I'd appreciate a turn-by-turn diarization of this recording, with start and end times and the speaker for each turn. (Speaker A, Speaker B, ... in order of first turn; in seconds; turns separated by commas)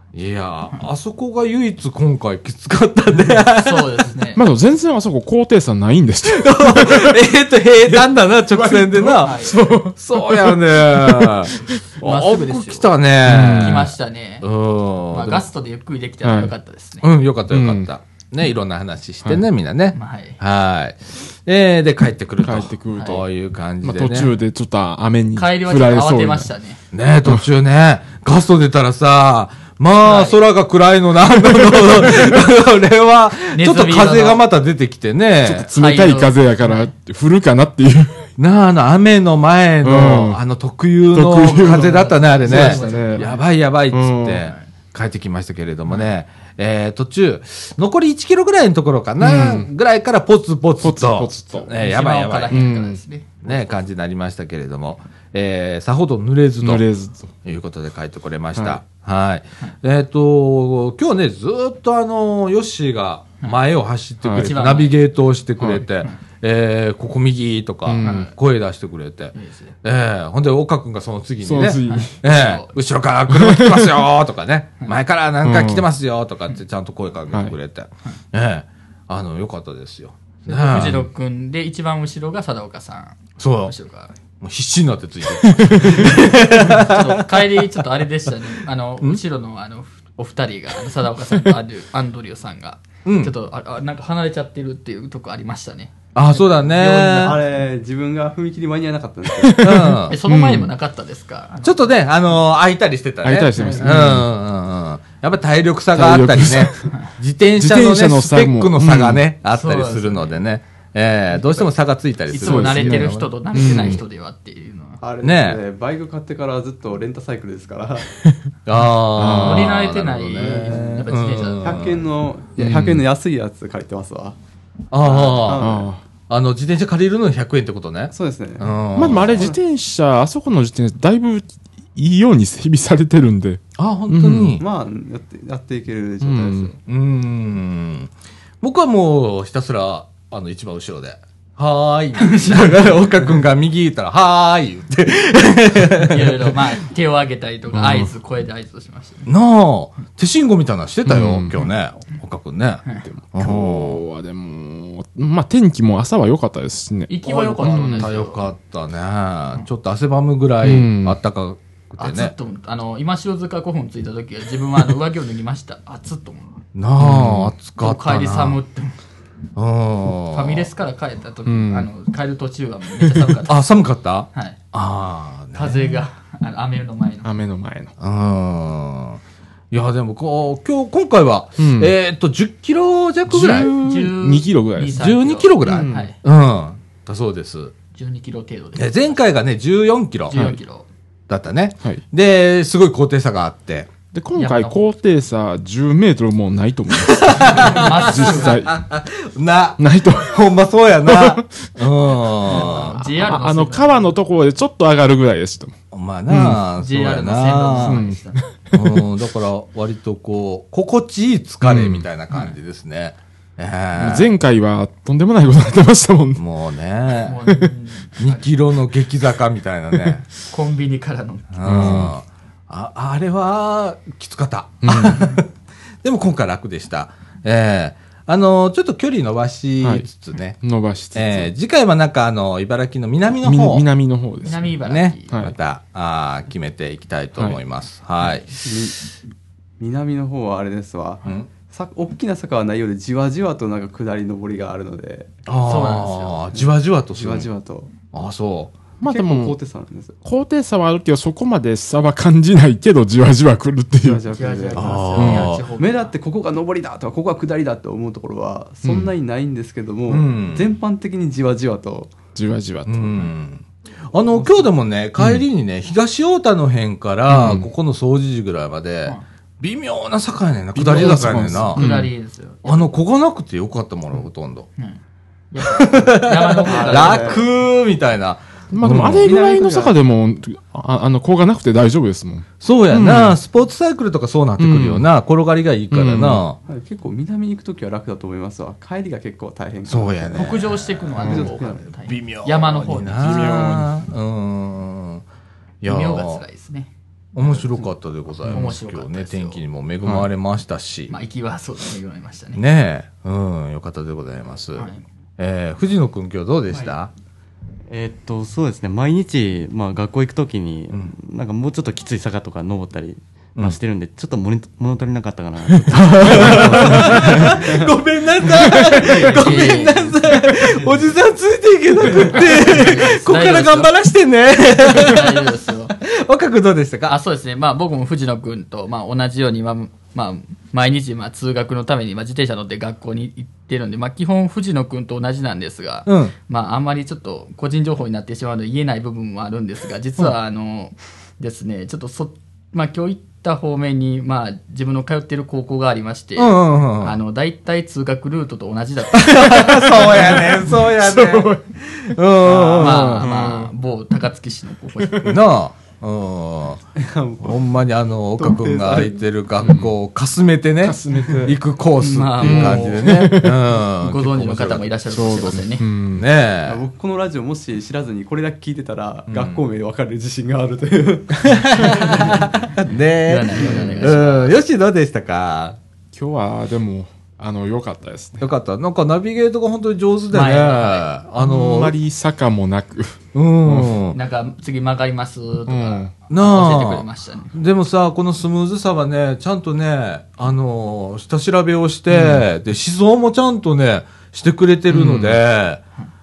Speaker A: 0.1-4.0, Speaker B: 3.5-4.4, Speaker C: 4.3-7.2, Speaker A: 6.2-15.5, Speaker C: 8.5-11.7, Speaker B: 9.2-9.6, Speaker B: 12.0-14.5, Speaker C: 13.2-13.9, Speaker B: 15.1-17.1, Speaker C: 16.2-16.5, Speaker A: 17.0-24.3, Speaker C: 17.5-17.9, Speaker B: 19.9-20.4, Speaker C: 22.4-23.3, Speaker C: 23.8-26.5, Speaker B: 25.4-26.8, Speaker A: 26.9-35.7, Speaker B: 30.0-30.4, Speaker C: 31.4-32.4, Speaker B: 33.5-34.4, Speaker C: 35.4-38.3, Speaker B: 35.7-36.9, Speaker A: 38.4-52.6, Speaker C: 39.8-40.4, Speaker C: 41.1-43.3, Speaker B: 41.5-43.5, Speaker C: 43.9-44.5, Speaker C: 49.2-49.7, Speaker C: 50.8-51.8, Speaker B: 51.8-53.8, Speaker C: 52.5-53.0, Speaker A: 53.4-56.9, Speaker C: 56.6-57.3, Speaker A: 57.5-81.1, Speaker C: 64.2-64.6, Speaker B: 64.3-65.0, Speaker C: 65.6-65.8, Speaker C: 67.9-68.3, Speaker B: 68.0-68.3, Speaker B: 69.3-69.7, Speaker C: 71.4-72.2, Speaker B: 71.6-72.7, Speaker C: 73.3-73.9, Speaker C: 75.4-75.9, Speaker B: 80.5-84.1, Speaker A: 83.4-83.7, Speaker A: 84.4-87.4, Speaker C: 85.4-86.1, Speaker B: 86.0-97.4, Speaker A: 93.0-93.3, Speaker A: 96.2-97.4, Speaker D: 97.2-99.9, Speaker C: 99.4-100.7, Speaker A: 99.6-100.2, Speaker B: 100.1-101.9, Speaker A: 101.6-114.0, Speaker C: 103.2-104.3, Speaker D: 103.6-103.8, Speaker C: 105.9-106.9, Speaker C: 107.6-109.2, Speaker B: 109.5-110.3, Speaker B: 111.4-111.7, Speaker B: 112.3-115.0, Speaker C: 112.3-114.0, Speaker D: 115.0-118.1, Speaker A: 115.2-115.6, Speaker A: 118.7-122.1, Speaker C: 119.1-119.8, Speaker B: 119.4-121.8, Speaker D: 120.4-121.1, Speaker D: 121.6-124.4, Speaker C: 122.6-123.0, Speaker A: 124.9-129.5, Speaker D: 125.0-125.9, Speaker C: 125.5-126.0, Speaker D: 128.1-129.6, Speaker C: 128.9-134.6, Speaker A: 133.8-134.6, Speaker D: 134.6-136.8, Speaker C: 136.2-136.7, Speaker A: 136.9-146.6, Speaker B: 142.2-143.1, Speaker B: 146.0-149.3, Speaker C: 147.7-148.1, Speaker A: 149.3-154.0, Speaker C: 151.1-151.7, Speaker C: 153.1-158.1, Speaker B: 157.1-158.4, Speaker A: 157.3-162.3, Speaker C: 160.6-161.2, Speaker B: 162.0-166.6, Speaker A: 166.8-168.6, Speaker C: 167.0-167.5, Speaker B: 167.8-169.0, Speaker A: 169.6-170.7, Speaker B: 170.3-173.7, Speaker C: 171.5-171.9, Speaker A: 173.5-175.9, Speaker B: 174.3-174.6, Speaker B: 175.6-177.3, Speaker C: 177.2-177.9, Speaker A: 178.0-179.2, Speaker A: 179.7-183.7, Speaker C: 181.6-181.9, Speaker C: 183.3-185.1, Speaker B: 183.3-186.2, Speaker A: 185.0-187.7, Speaker C: 185.7-186.1, Speaker B: 187.9-189.2, Speaker A: 188.8-190.4, Speaker B: 190.3-190.9, Speaker C: 190.3-190.6, Speaker A: 191.3-193.9, Speaker C: 194.1-198.8, Speaker B: 194.4-194.9, Speaker A: 197.0-203.0, Speaker B: 197.5-198.6, Speaker C: 199.8-200.5, Speaker C: 201.1-201.8, Speaker C: 202.4-205.8, Speaker B: 202.5-204.2, Speaker A: 205.9-208.0, Speaker C: 206.3-206.6, Speaker B: 206.8-208.4, Speaker C: 207.8-209.0, Speaker A: 208.7-214.3, Speaker C: 211.6-212.1, Speaker C: 214.0-216.4, Speaker A: 216.4-217.4, Speaker B: 217.2-218.5, Speaker A: 218.2-220.3, Speaker B: 220.5-222.1, Speaker A: 221.5-225.5, Speaker C: 221.6-222.1, Speaker C: 224.8-225.3, Speaker A: 226.0-230.6, Speaker C: 230.6-231.5, Speaker A: 231.1-233.9, Speaker C: 233.4-234.7, Speaker B: 234.4-235.3, Speaker A: 234.8-238.6, Speaker D: 238.6-239.0, Speaker D: 239.8-245.3, Speaker A: 245.5-247.5, Speaker B: 245.6-246.5, Speaker D: 246.6-247.9, Speaker A: 248.1-248.8, Speaker C: 249.0-249.6, Speaker D: 249.0-250.2, Speaker C: 250.2-254.2, Speaker D: 254.0-262.1, Speaker B: 254.3-256.1, Speaker A: 254.8-255.7, Speaker C: 255.2-255.5, Speaker C: 258.8-259.1, Speaker A: 260.1-260.7, Speaker C: 262.4-263.3, Speaker A: 262.9-272.0, Speaker D: 264.2-264.7, Speaker C: 265.2-265.4, Speaker C: 267.3-267.7, Speaker C: 270.8-272.1, Speaker B: 271.0-272.9, Speaker A: 272.6-274.7, Speaker B: 275.5-277.5, Speaker A: 275.6-279.3, Speaker D: 276.6-277.4, Speaker C: 278.7-283.4, Speaker D: 279.0-279.9, Speaker A: 282.6-286.6, Speaker C: 284.6-285.1, Speaker C: 285.9-286.4, Speaker D: 286.7-291.9, Speaker A: 289.9-291.5, Speaker B: 290.4-293.6, Speaker A: 292.1-295.2, Speaker C: 293.2-293.9, Speaker A: 295.8-296.4, Speaker B: 295.8-296.9, Speaker A: 297.4-301.1, Speaker D: 297.4-297.9, Speaker C: 298.4-298.7, Speaker B: 298.5-299.6, Speaker B: 301.1-302.6, Speaker A: 302.6-307.1, Speaker B: 304.8-305.0, Speaker E: 307.9-317.7, Speaker C: 315.8-317.6, Speaker A: 316.2-327.2, Speaker C: 318.6-319.3, Speaker E: 319.0-321.1, Speaker B: 319.1-320.1, Speaker B: 322.3-323.9, Speaker B: 324.8-325.9, Speaker B: 327.1-350.4, Speaker A: 336.1-336.3, Speaker A: 346.4-347.2, Speaker A: 349.1-353.3, Speaker C: 350.1-353.7, Speaker B: 352.6-355.4, Speaker A: 355.2-356.8, Speaker D: 357.0-357.6, Speaker A: 357.4-364.9, Speaker D: 358.4-359.2, Speaker C: 359.6-359.9, Speaker C: 360.8-361.6, Speaker B: 362.0-365.9, Speaker C: 362.4-363.7, Speaker C: 365.1-366.3, Speaker A: 366.1-366.8, Speaker D: 366.7-372.7, Speaker A: 369.3-369.6, Speaker A: 371.4-375.8, Speaker B: 371.9-372.5, Speaker B: 373.2-374.6, Speaker C: 373.6-373.9, Speaker C: 376.1-378.4, Speaker A: 378.4-382.0, Speaker B: 380.3-381.1, Speaker C: 381.4-384.0, Speaker A: 383.3-384.2, Speaker B: 384.1-387.6, Speaker C: 385.7-386.1, Speaker A: 386.3-395.8, Speaker C: 392.1-392.5, Speaker C: 394.9-395.4